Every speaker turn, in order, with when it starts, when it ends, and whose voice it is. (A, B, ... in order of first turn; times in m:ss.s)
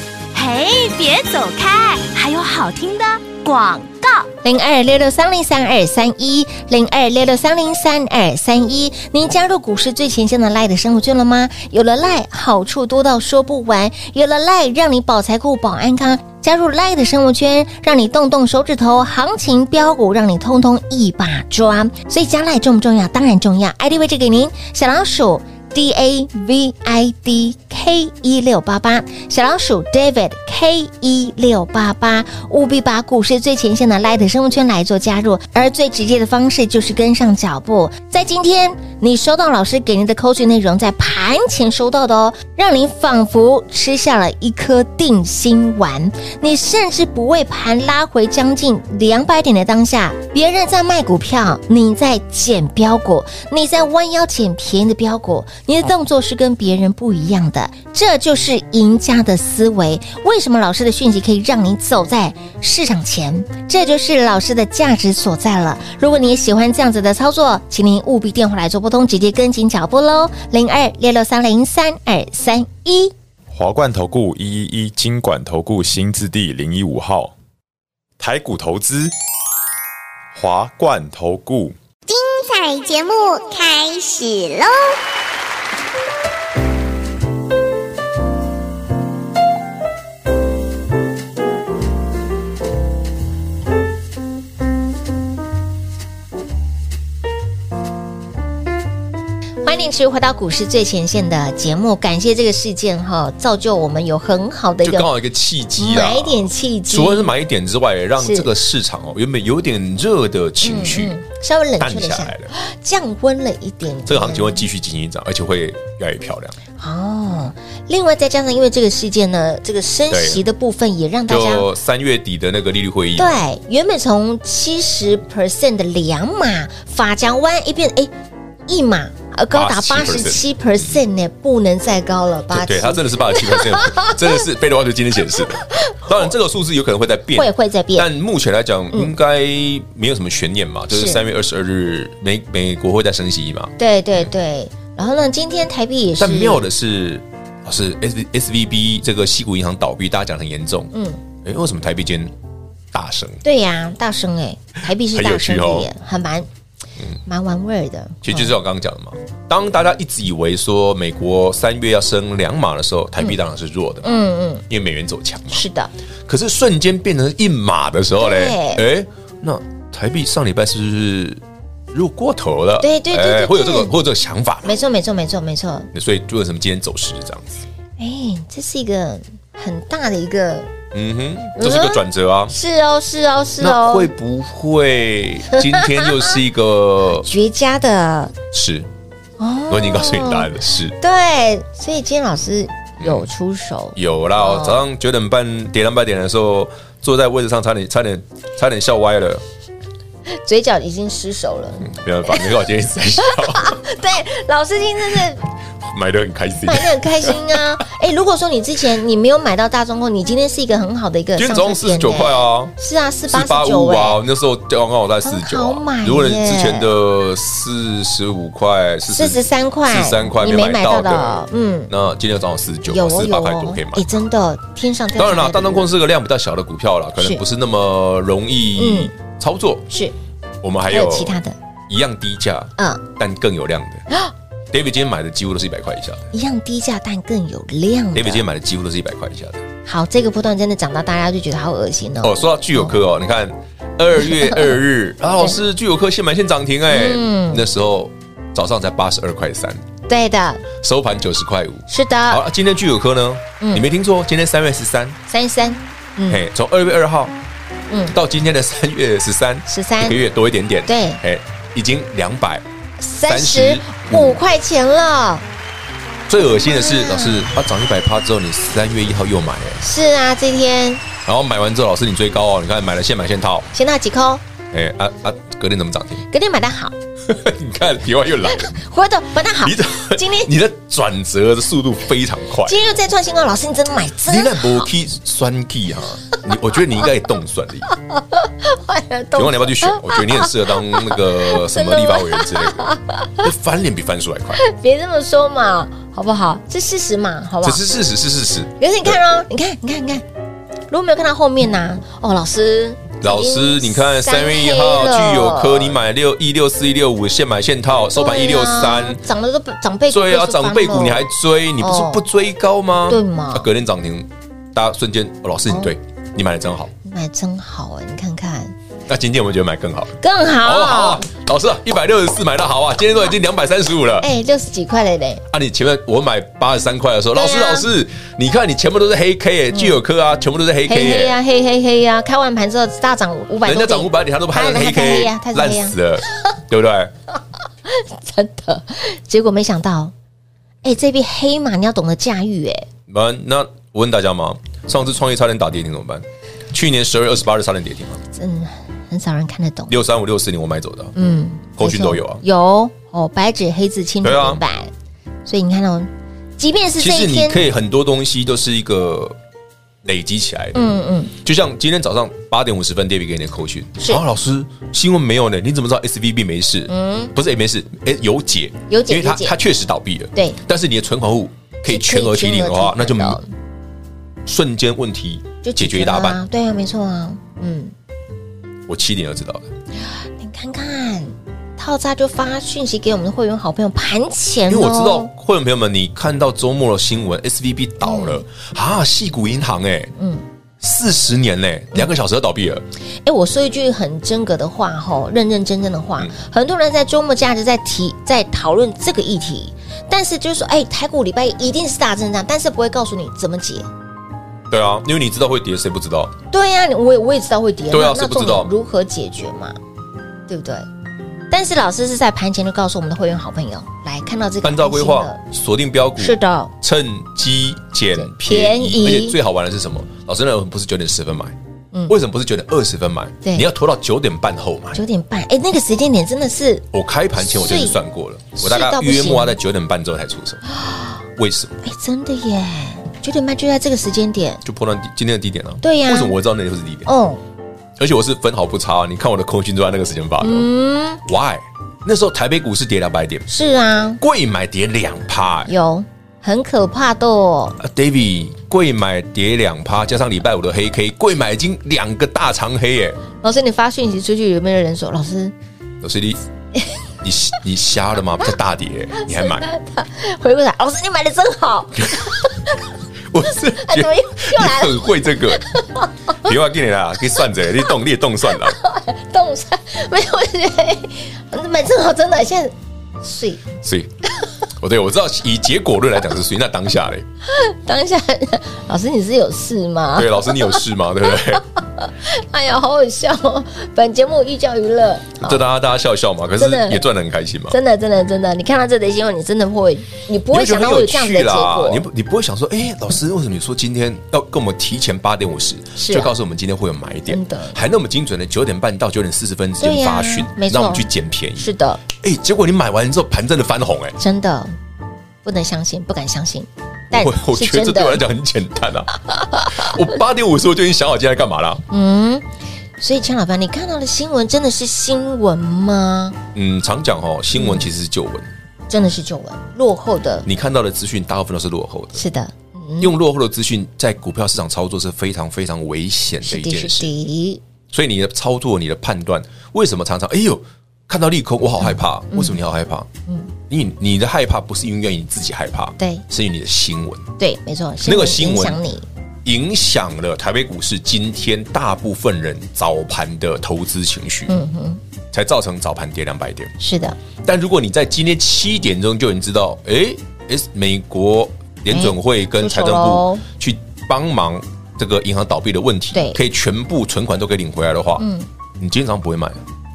0:00.3-0:04.3 A
0:04.4-1:13.1 B
1:13.5-1:17.3 C
1:18.2-1:19.1 C
1:20.3-1:21.8 C
1:22.1-1:24.9 D
1:39.6-1:45.1 B
1:44.8-1:51.2 E
1:45.8-1:47.3 B
1:48.2-1:48.5 B
1:50.6-1:54.7 B
1:51.8-1:52.5 E
1:54.0-1:56.6 E
1:56.8-2:01.7 B
2:00.1-2:00.4 E
2:01.3-2:03.4 E
2:03.2-2:08.1 B
2:08.7-2:14.2 B
2:09.5-2:10.8 E
2:12.5-2:23.7 E
2:17.3-2:18.1 B
2:20.9-2:21.2 B
2:23.8-2:26.7 B
2:26.2-2:30.9 E
2:30.9-2:31.2 B
2:31.4-2:32.3 E
2:32.9-2:33.4 E
2:33.4-2:36.5 B
2:35.0-2:35.9 E
2:37.2-2:38.5 B
2:38.2-2:45.6 E
2:44.0-2:44.6 B
2:45.5-2:45.9 B
2:46.3-2:51.4 E
2:48.2-2:48.8 B
2:51.9-2:54.8 E
2:52.8-2:53.9 B
2:54.6-2:55.9 B
2:55.9-2:57.5 E
2:58.0-3:00.7 B
3:00.9-3:02.5 E
3:01.6-3:04.1 B
3:03.6-3:07.3 E
3:05.5-3:06.4 B
3:07.2-3:08.3 B
3:08.5-3:08.9 E
3:09.4-3:14.8 B
3:09.7-3:11.0 E
3:13.0-3:13.3 E
3:14.0-3:19.4 E
3:20.3-3:22.5 B
3:21.8-3:23.8 E
3:23.2-3:25.4 B
3:25.8-3:27.6 E
3:26.6-3:34.2 B
3:31.4-3:32.7 E
3:33.3-3:41.4 E
3:35.2-3:36.9 B
3:39.1-3:41.9 B
3:41.9-3:44.1 E
3:42.9-3:45.9 B
3:45.1-3:49.9 E
3:48.8-3:49.1 B
3:50.6-3:51.3 E
3:50.9-3:51.6 B
3:51.9-3:54.0 E
3:52.8-3:53.0 B
3:54.7-3:56.3 E
3:56.3-3:58.5 B
3:58.1-3:59.6 E
3:59.8-4:02.9 B
4:02.2-4:09.8 E
4:04.3-4:04.7 B
4:06.9-4:07.6 B
4:10.1-4:10.6 B
4:10.8-4:15.2 E
4:11.9-4:12.4 B
4:13.6-4:13.8 B
4:15.3-4:16.4 B
4:16.3-4:17.4 E
4:17.9-4:18.2 B
4:18.1-4:22.6 E
4:19.7-4:20.2 B
4:20.8-4:21.2 B
4:23.0-4:25.4 B
4:23.2-4:24.4 E
4:26.3-4:29.8 E
4:26.7-4:27.5 B
4:29.8-4:31.0 B
4:31.2-4:33.7 E
4:33.7-4:34.4 B
4:34.7-4:36.2 E
4:36.3-4:36.9 B
4:37.2-4:38.7 E
4:38.5-4:40.5 B
4:39.6-4:42.8 E
4:42.6-4:44.8 B
4:44.2-4:47.9 E
4:47.9-4:53.4 B
4:49.3-4:52.8 E
4:53.4-4:54.6 E
4:54.5-4:57.8 B
4:57.6-4:59.2 E
4:58.8-5:00.2 B
5:00.9-5:06.0 B
5:03.2-5:09.2 E
5:08.1-5:11.2 B
5:10.1-5:16.9 E
5:11.8-5:12.2 B
5:13.1-5:13.7 B
5:17.0-5:18.7 B
5:19.1-5:24.3 E
5:20.2-5:21.2 B
5:24.2-5:25.4 B
5:25.5-5:31.4 E
5:27.3-5:27.9 B
5:29.7-5:30.0 B
5:30.9-5:36.0 B
5:33.6-5:37.1 E
5:37.8-5:40.1 B
5:40.8-5:42.9 B
5:43.1-5:48.2 E
5:48.3-5:49.9 B
5:49.9-5:51.1 E
5:51.1-5:54.9 B
5:51.8-5:52.4 E
5:54.2-5:54.6 E
5:55.4-5:57.7 B
5:57.0-5:59.4 E
6:00.0-6:00.8 E
6:00.7-6:01.3 B
6:01.4-6:13.4 E
6:06.9-6:07.3 B
6:08.9-6:09.6 B
6:11.8-6:13.5 B
6:14.4-6:16.4 E
6:15.6-6:17.9 B
6:18.9-6:19.7 E
6:20.4-6:25.3 B
6:24.7-6:30.1 E
6:28.0-6:28.4 B
6:30.2-6:30.4 B
6:30.8-6:32.8 E
6:33.2-6:43.8 B
6:44.7-6:46.3 E
6:46.5-6:49.8 B
6:47.9-6:48.7 E
6:50.5-6:50.8 B
6:51.5-6:55.4 B
6:54.6-7:01.6 E
6:56.2-6:56.7 B
6:58.1-6:59.4 B
7:02.1-7:05.0 E
7:03.4-7:03.7 B
7:04.9-7:06.8 B
7:06.9-7:10.6 E
7:07.4-7:08.0 B
7:08.6-7:09.6 B
7:10.8-7:11.1 B
7:11.4-7:11.8 E
7:11.8-7:14.6 B
7:14.6-7:17.1 E
7:15.8-7:16.4 B
7:17.0-7:17.4 B
7:18.0-7:20.7 E
7:20.4-7:21.2 B
7:21.2-7:23.5 E
7:23.5-7:24.2 B
7:24.2-7:25.7 E
7:25.7-7:27.8 B
7:27.8-7:33.2 E
7:33.4-7:35.5 B
7:36.0-7:36.4 E
7:37.2-7:39.7 E
7:39.2-7:42.8 B
7:43.3-7:45.6 E
7:43.7-7:46.3 B
7:46.4-7:48.8 E
7:48.5-7:53.6 B
7:53.8-7:54.1 E
7:54.8-7:57.2 E
7:57.4-8:05.6 B
8:00.1-8:01.6 E
8:05.4-8:07.8 E
8:06.6-8:07.0 B
8:07.7-8:12.0 B
8:10.5-8:24.2 E
8:16.0-8:16.3 B
8:17.3-8:17.8 B
8:19.8-8:22.0 B
8:24.2-8:24.7 B
8:25.4-8:28.2 B
8:27.1-8:29.1 E
8:29.3-8:29.9 B
8:29.6-8:31.8 E
8:31.9-8:32.4 B
8:33.0-8:36.4 B
8:36.5-8:38.5 E
8:37.5-8:37.9 B
8:38.9-8:40.5 B
8:40.4-8:42.2 E
8:42.1-8:43.1 B
8:43.0-8:47.1 E
8:46.4-8:47.6 B
8:47.9-8:53.1 E
8:51.8-8:52.6 B
8:53.7-8:57.3 E
8:57.4-8:59.0 B
8:58.0-8:58.8 E
8:59.4-9:04.6 E
9:04.5-9:05.0 B
9:05.3-9:06.7 E
9:06.8-9:07.2 B
9:07.4-9:18.2 E
9:11.9-9:13.4 B
9:16.1-9:16.4 B
9:18.2-9:18.5 B
9:18.8-9:19.6 E